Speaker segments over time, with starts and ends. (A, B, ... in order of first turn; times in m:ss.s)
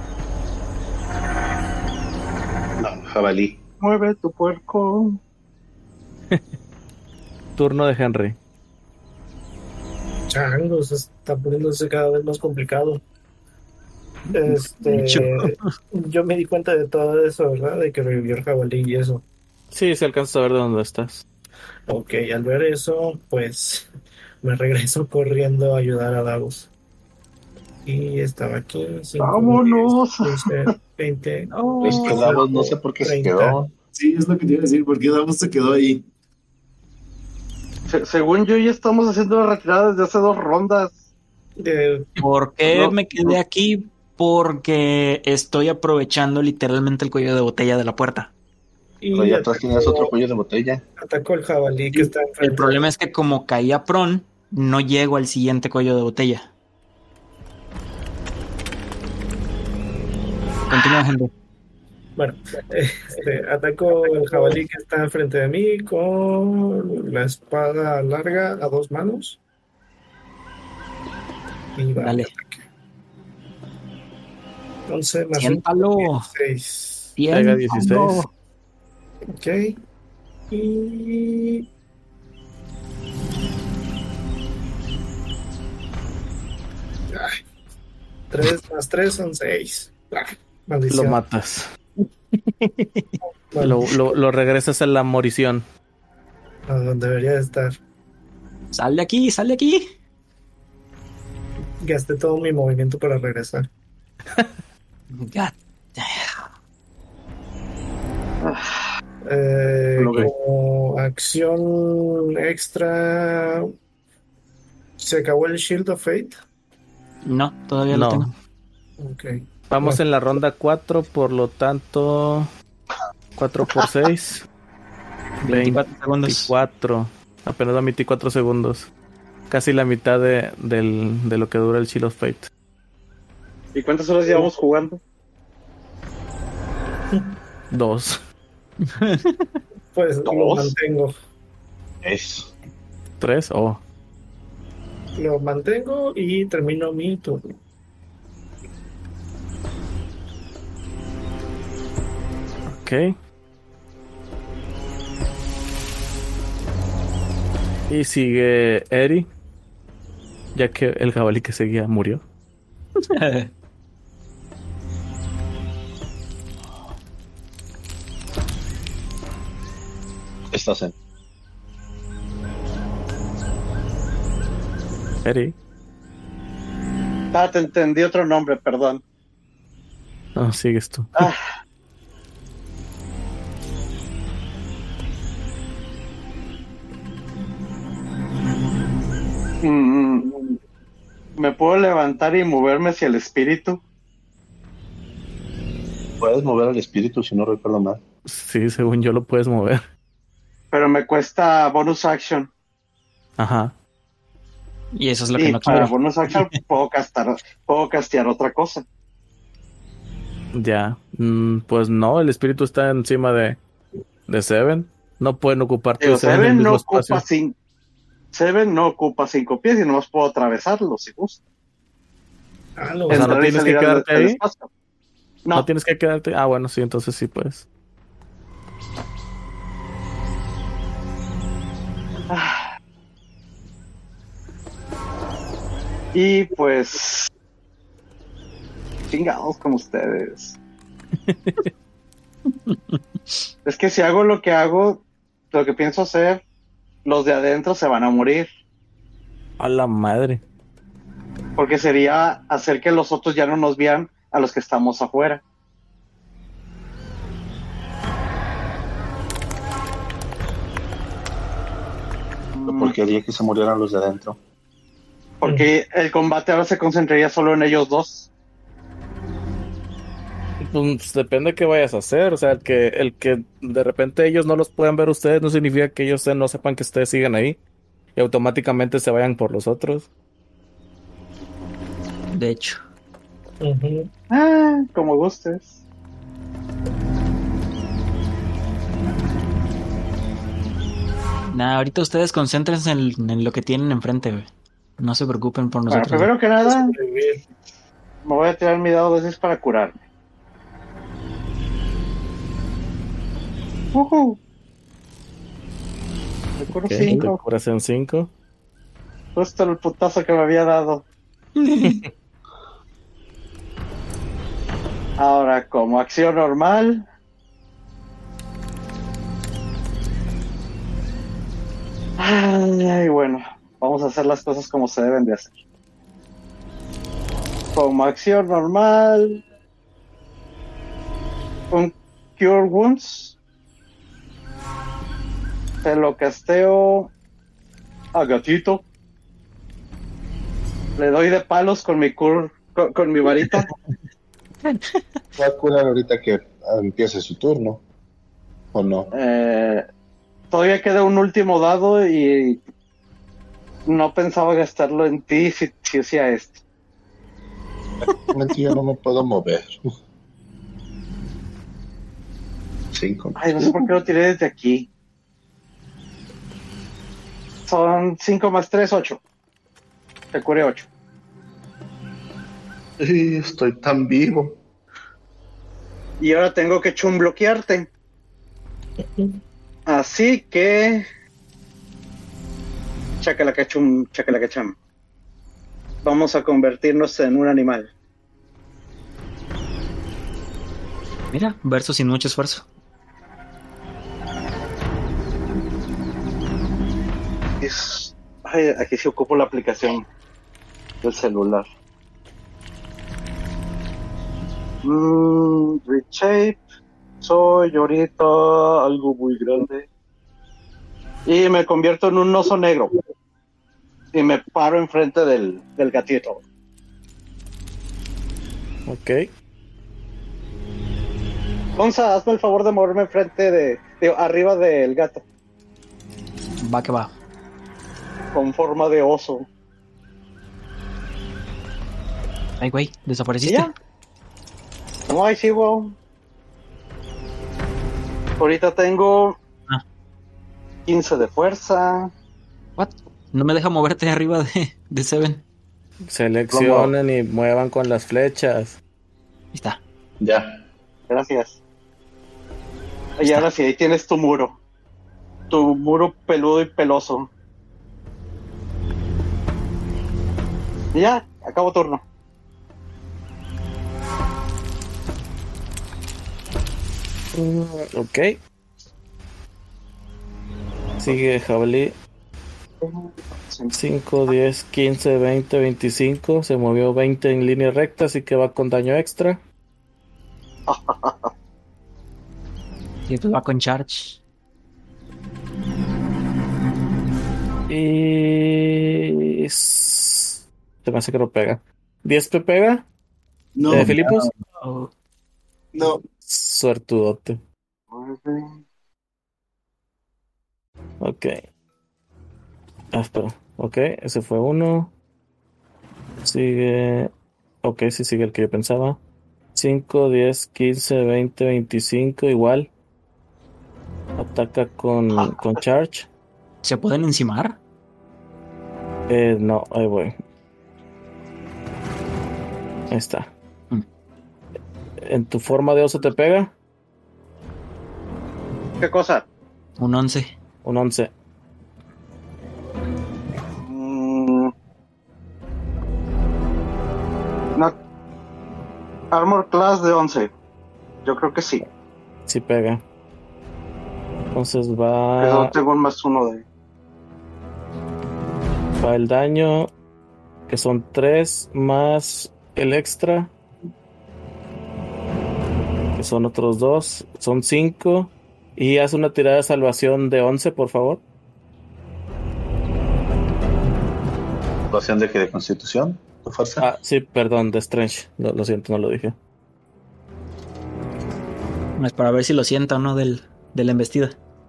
0:02.8-0:03.6 A
0:03.8-0:05.2 B
0:07.6-0:08.4 C
0:10.3-0:13.0 D
0:14.3-0:15.7 E
0:14.3-0:19.2 D
0:19.7-0:21.2 C
0:21.9-0:23.9 D
0:24.4-0:26.7 D
0:27.8-0:33.6 D
0:29.2-0:30.7 B
0:31.5-0:32.4 E
0:31.8-0:33.7 A
0:33.9-0:36.0 F
0:37.9-0:41.0 B
0:41.6-0:42.1 D
0:42.2-0:48.3 E
0:49.0-0:50.1 D
0:49.1-0:50.8 A
0:51.0-0:52.8 D
0:51.9-0:56.5 E
1:00.7-1:01.3 E
1:02.2-1:09.4 D
1:04.2-1:04.5 E
1:11.8-1:12.6 D
1:12.0-1:12.3 E
1:14.9-1:17.2 D
1:15.4-1:16.3 E
1:17.2-1:18.3 E
1:17.3-1:18.2 C
1:19.3-1:19.8 D
1:20.5-1:21.6 D
1:27.1-1:27.4 D
1:28.3-1:31.2 D
1:30.9-1:31.7 C
1:33.5-1:33.9 D
1:33.6-1:35.6 C
1:36.7-1:37.8 D
1:38.7-1:39.9 E
1:41.8-1:43.7 D
1:45.1-1:46.4 E
1:48.4-1:48.7 B
1:49.2-1:53.7 D
1:50.0-1:50.3 C
1:55.0-1:56.4 D
1:57.2-1:58.3 E
1:57.9-1:58.3 C
1:59.0-2:00.0 D
1:59.7-2:02.5 C
2:03.4-2:04.4 C
2:05.4-2:06.5 E
2:05.5-2:08.9 C
2:09.5-2:12.5 C
2:13.7-2:15.0 B
2:17.7-2:18.2 C
2:18.9-2:19.5 E
2:19.9-2:21.1 D
2:20.2-2:20.7 B
2:22.0-2:22.5 A
2:23.2-2:23.8 C
2:25.2-2:27.4 D
2:32.7-2:33.1 C
2:37.9-2:39.3 C
2:40.5-2:42.2 C
2:43.1-2:43.5 E
2:50.5-2:50.9 A
2:55.2-2:55.6 C
2:57.3-2:59.0 B
3:00.4-3:01.3 C
3:09.6-3:10.5 B
3:11.4-3:13.8 B
3:16.2-3:18.0 A
3:18.2-3:19.8 C
3:20.7-3:22.5 B
3:23.4-3:23.8 C
3:24.9-3:26.4 E
3:25.4-3:28.8 B
3:30.5-3:33.6 C
3:34.3-3:37.2 C
3:36.0-3:37.5 B
3:38.3-3:41.4 B
3:42.8-3:43.4 D
3:43.1-3:44.7 B
3:43.1-3:44.4 C
3:45.5-3:47.6 C
3:52.3-3:52.6 B
3:56.1-3:57.3 B
3:59.1-4:00.6 B
4:01.3-4:01.7 C
4:02.7-4:03.4 E
4:03.6-4:06.4 B
4:07.0-4:08.5 B
4:09.6-4:10.4 C
4:11.6-4:15.4 B
4:22.5-4:23.0 B
4:22.7-4:24.4 A
4:25.4-4:28.3 B
4:30.6-4:37.6 C
4:38.2-4:40.1 C
4:42.3-4:42.8 E
4:43.6-4:44.1 D
4:44.3-4:45.8 B
4:51.5-4:54.5 E
4:55.0-4:56.3 E
4:55.9-4:56.9 B
4:56.6-4:57.4 D
4:58.2-5:00.0 B
5:03.9-5:04.4 B
5:06.6-5:07.4 B
5:06.8-5:08.3 C
5:09.4-5:11.0 B
5:11.6-5:12.0 E
5:15.2-5:17.0 B
5:22.2-5:25.6 B
5:27.7-5:29.4 B
5:31.7-5:33.4 B
5:35.8-5:37.1 B
5:38.1-5:38.8 B
5:41.0-5:43.7 B
5:44.6-5:45.0 E
5:45.4-5:47.8 A
5:48.7-5:49.1 A
5:49.1-5:49.8 B
5:50.5-5:52.6 B
5:53.8-5:56.6 B
5:58.3-5:59.9 A
6:02.9-6:03.9 A
6:03.4-6:04.9 B
6:07.7-6:09.2 B
6:10.3-6:10.9 B
6:13.0-6:14.6 A
6:16.2-6:17.9 B
6:19.0-6:19.4 D
6:19.9-6:21.0 B
6:23.2-6:24.7 B
6:26.0-6:27.9 B
6:31.3-6:32.6 E
6:37.6-6:40.0 B
6:41.0-6:41.6 B
6:44.8-6:46.6 B
6:47.2-6:49.9 B
6:51.2-6:53.0 B
6:54.1-6:56.4 B
6:58.9-6:59.3 C
7:01.8-7:05.2 B
7:06.6-7:07.1 E
7:08.3-7:09.5 B
7:12.6-7:13.7 E
7:15.1-7:16.0 B
7:18.4-7:19.4 B
7:20.8-7:22.1 B
7:22.8-7:25.4 E
7:26.1-7:28.8 C
7:26.5-7:26.9 A
7:29.5-7:29.8 E
7:30.2-7:30.6 A
7:31.1-7:31.6 B
7:33.2-7:34.6 B
7:35.5-7:37.3 B
7:40.9-7:42.0 B
7:47.3-7:48.4 C
7:51.0-7:52.0 C
7:52.8-7:53.7 B
7:53.7-7:59.4 C
8:00.7-8:01.3 B
8:03.1-8:04.2 E
8:07.7-8:12.8 C
8:13.6-8:14.3 F
8:13.7-8:14.3 C
8:14.6-8:14.9 E
8:15.7-8:16.1 F
8:16.2-8:17.4 C
8:17.9-8:18.6 B
8:21.0-8:21.4 C
8:22.9-8:24.9 C
8:26.2-8:27.1 C
8:27.6-8:29.0 C
8:29.5-8:32.7 C
8:34.2-8:36.1 C
8:35.2-8:35.5 B
8:36.6-8:37.6 E
8:39.1-8:40.2 C
8:42.9-8:43.3 C
8:45.0-8:46.5 C
8:48.8-8:49.2 B
8:49.8-8:50.3 E
8:50.6-8:51.1 C
8:53.6-8:54.5 B
8:59.1-9:00.3 B
9:01.0-9:01.6 B
9:02.3-9:02.8 C
9:04.3-9:05.5 C
9:05.2-9:06.4 B
9:08.8-9:09.7 C
9:10.5-9:13.3 C
9:16.0-9:21.0 C
9:24.7-9:26.7 A
9:26.6-9:29.2 C
9:31.8-9:34.1 E